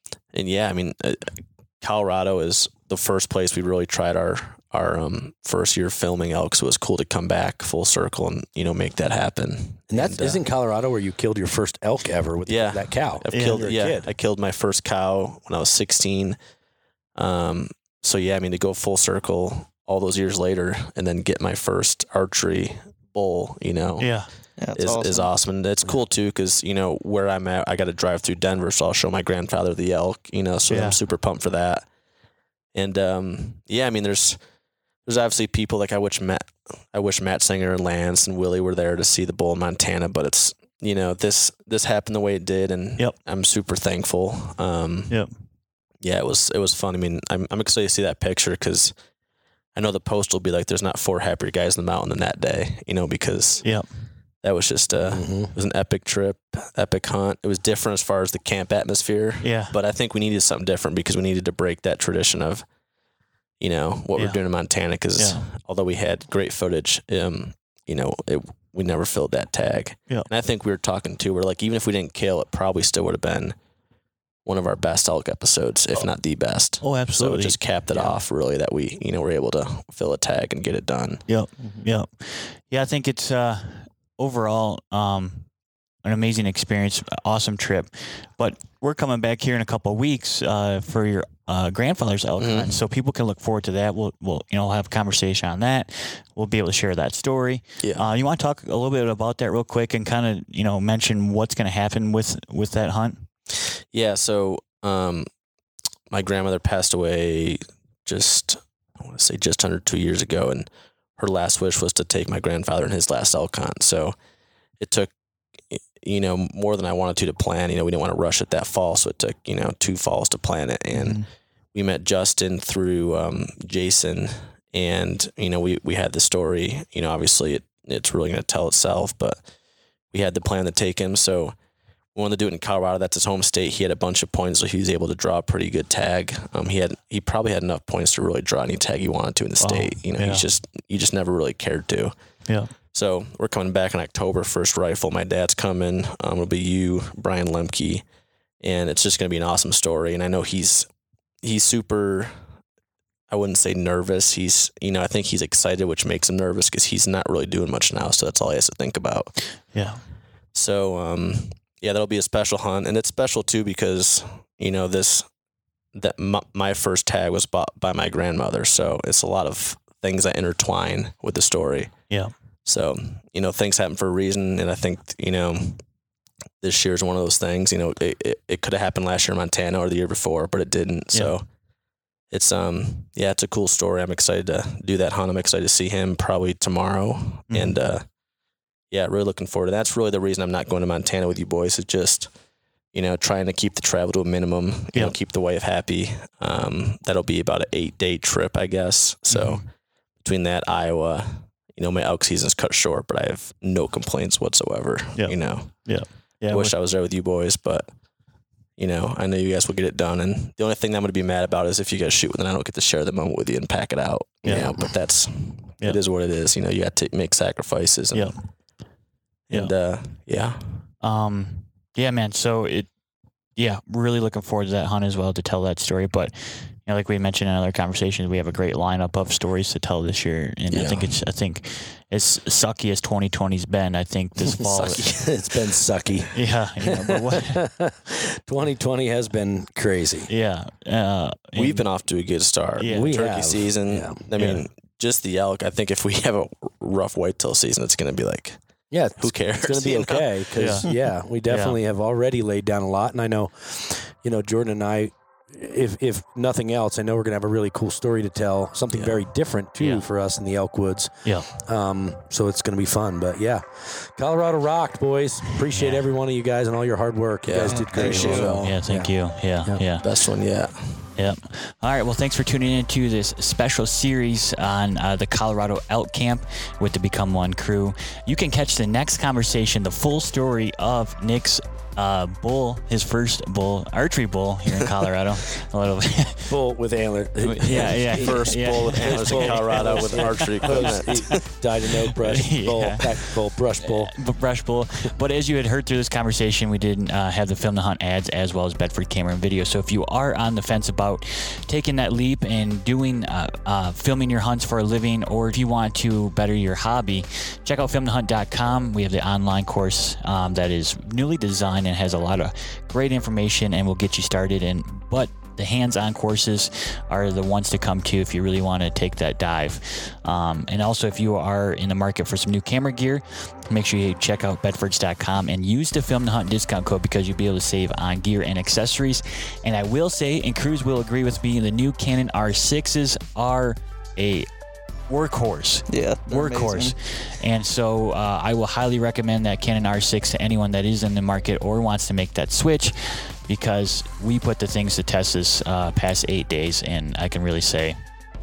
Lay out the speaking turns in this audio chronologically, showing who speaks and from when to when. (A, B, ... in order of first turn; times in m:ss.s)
0:00.3-0:10.4 A
0:09.9-0:14.1 B
0:12.5-0:16.4 A
0:13.3-0:13.7 C
0:17.2-0:24.1 A
0:24.0-0:24.3 C
0:24.6-0:25.3 D
0:24.8-0:31.9 A
0:30.7-0:31.0 C
0:32.8-0:34.4 A
0:35.0-0:45.2 A
0:46.0-0:48.9 A
0:49.7-0:53.7 A
0:54.4-1:02.6 A
0:55.1-0:55.5 B
0:59.4-0:59.7 C
1:03.6-1:13.6 A
1:05.2-1:05.4 C
1:14.4-1:21.2 A
1:16.8-1:18.2 C
1:21.3-1:25.5 C
1:26.0-1:43.3 C
1:32.4-1:32.8 A
1:37.8-1:38.1 A
1:43.9-1:45.3 A
1:46.1-1:54.2 A
1:54.8-1:55.1 A
1:55.7-2:01.2 A
2:01.7-2:09.4 A
2:10.1-2:11.6 A
2:12.2-2:22.1 A
2:19.6-2:20.4 C
2:22.5-2:22.7 C
2:22.9-2:28.0 A
2:28.6-2:30.9 A
2:31.4-2:32.3 A
2:33.3-2:39.4 A
2:39.7-2:40.0 C
2:40.5-2:45.3 A
2:46.0-2:51.9 A
2:52.6-2:55.8 A
2:56.6-3:01.4 A
3:02.3-3:08.0 A
3:07.5-3:07.8 C
3:08.9-3:12.3 A
3:12.9-3:19.7 A
3:19.3-3:19.6 C
3:20.2-3:25.9 A
3:25.2-3:26.8 C
3:26.5-3:27.9 A
3:28.8-3:38.4 A
3:34.4-3:34.8 C
3:39.5-3:40.8 A
3:41.0-3:42.9 C
3:43.6-3:55.2 C
3:50.7-3:51.1 A
3:54.7-3:55.2 A
3:55.0-4:00.3 B
3:56.3-3:57.6 C
4:00.3-4:01.9 C
4:01.6-4:08.6 A
4:02.8-4:03.2 C
4:02.9-4:04.2 B
4:04.4-4:04.6 C
4:08.9-4:29.1 B
4:09.2-4:10.3 A
4:10.6-4:10.9 C
4:11.5-4:11.8 C
4:19.8-4:20.0 C
4:25.7-4:26.0 C
4:27.4-4:28.6 A
4:27.9-4:28.6 D
4:28.0-4:30.1 C
4:30.0-4:31.1 A
4:31.2-4:46.5 C
4:46.5-4:54.1 B
4:47.4-4:51.4 A
4:47.6-4:51.3 C
4:52.2-5:34.5 C
5:35.1-5:48.0 C
5:35.9-5:36.9 D